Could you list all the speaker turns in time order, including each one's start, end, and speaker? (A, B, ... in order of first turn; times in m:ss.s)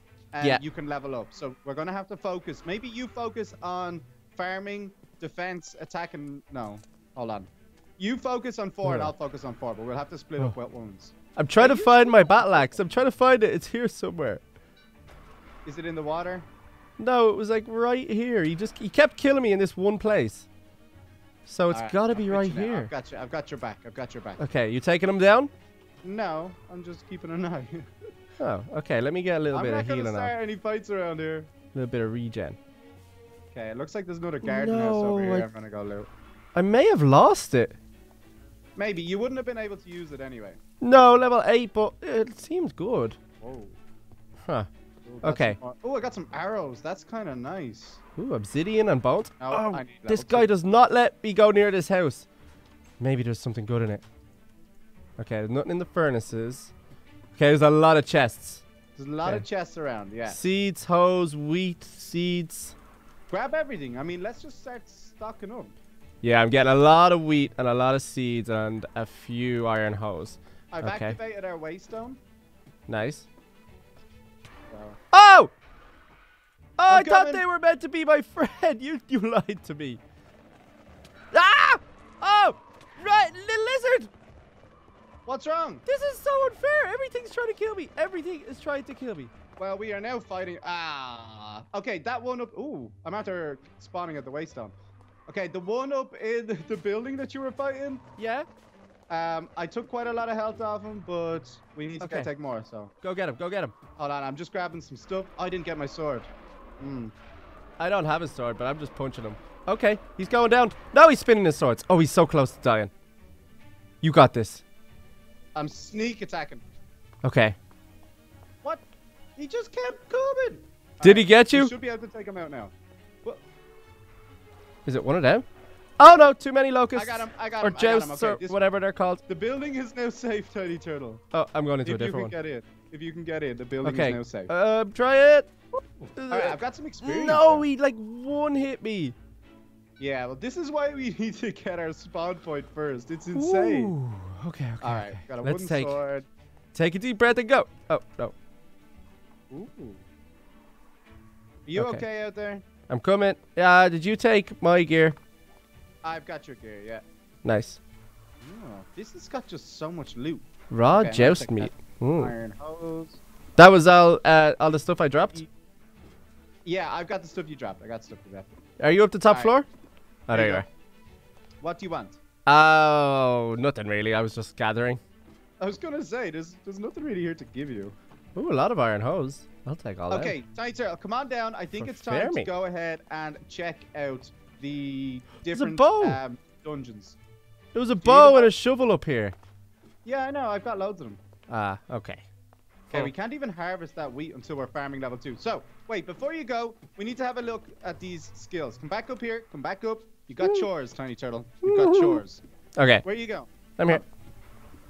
0:00.3-0:12.8 A
0:08.8-0:09.1 B
0:11.4-0:14.4 B
0:15.6-0:16.4 A
0:17.0-0:20.5 B
0:21.4-0:22.9 B
0:21.7-0:24.4 A
0:24.4-0:25.5 B
0:26.0-0:27.9 A
0:28.4-0:30.3 B
0:29.5-0:31.5 A
0:31.7-0:32.6 B
0:33.5-0:36.1 A
0:34.4-0:35.5 B
0:36.5-0:37.8 B
0:38.8-0:40.6 A
0:40.8-0:43.2 B
0:43.4-0:43.8 A
0:44.4-0:44.7 B
0:45.0-0:48.0 A
0:45.2-0:45.6 B
0:48.2-0:52.2 B
0:49.4-0:50.5 A
0:53.0-0:54.0 B
0:55.2-0:56.7 B
0:57.3-0:58.6 B
0:59.0-1:00.4 A
1:00.3-1:02.7 B
1:03.3-1:05.7 A
1:06.2-1:11.2 B
1:10.7-1:12.2 A
1:12.9-1:13.3 B
1:14.7-1:15.0 A
1:15.1-1:15.5 B
1:16.8-1:20.0 B
1:16.9-1:17.4 A
1:21.3-1:24.1 B
1:25.2-1:25.8 A
1:25.8-1:29.3 B
1:29.6-1:34.7 A
1:35.3-1:38.0 A
1:38.2-1:38.4 B
1:39.1-1:42.9 A
1:42.0-1:42.3 B
1:43.0-1:43.7 B
1:44.0-1:46.3 A
1:46.8-1:47.1 A
1:47.8-1:52.9 B
1:54.0-1:54.6 B
1:55.6-1:56.6 A
1:57.2-1:57.6 B
1:59.4-2:03.4 A
2:01.0-2:01.7 B
2:04.8-2:05.4 B
2:06.0-2:09.2 B
2:06.9-2:08.6 A
2:09.3-2:11.2 A
2:11.3-2:12.3 B
2:11.8-2:14.5 A
2:13.8-2:15.5 B
2:16.1-2:19.1 B
2:16.3-2:17.6 A
2:20.0-2:23.9 A
2:23.3-2:25.9 B
2:24.8-2:26.2 A
2:26.7-2:28.3 B
2:29.5-2:30.0 A
2:31.6-2:32.6 A
2:31.7-2:32.0 B
2:32.9-2:35.2 B
2:36.0-2:37.0 A
2:37.4-2:37.8 B
2:38.4-2:43.2 A
2:40.7-2:42.3 B
2:43.6-2:45.4 B
2:46.6-2:48.6 A
2:48.8-2:49.7 B
2:49.3-2:49.5 A
2:50.3-2:50.6 B
2:50.3-2:50.6 A
2:51.6-2:52.2 A
2:52.4-2:55.0 B
2:55.6-2:57.9 A
2:58.4-3:00.3 B
3:00.1-3:07.2 A
3:01.7-3:02.5 B
3:05.5-3:06.2 B
3:07.7-3:09.3 B
3:08.0-3:08.5 A
3:10.0-3:11.2 A
3:11.5-3:12.2 B
3:12.9-3:22.4 A
3:20.4-3:20.7 B
3:21.6-3:22.2 B
3:22.8-3:23.0 B
3:23.0-3:24.0 A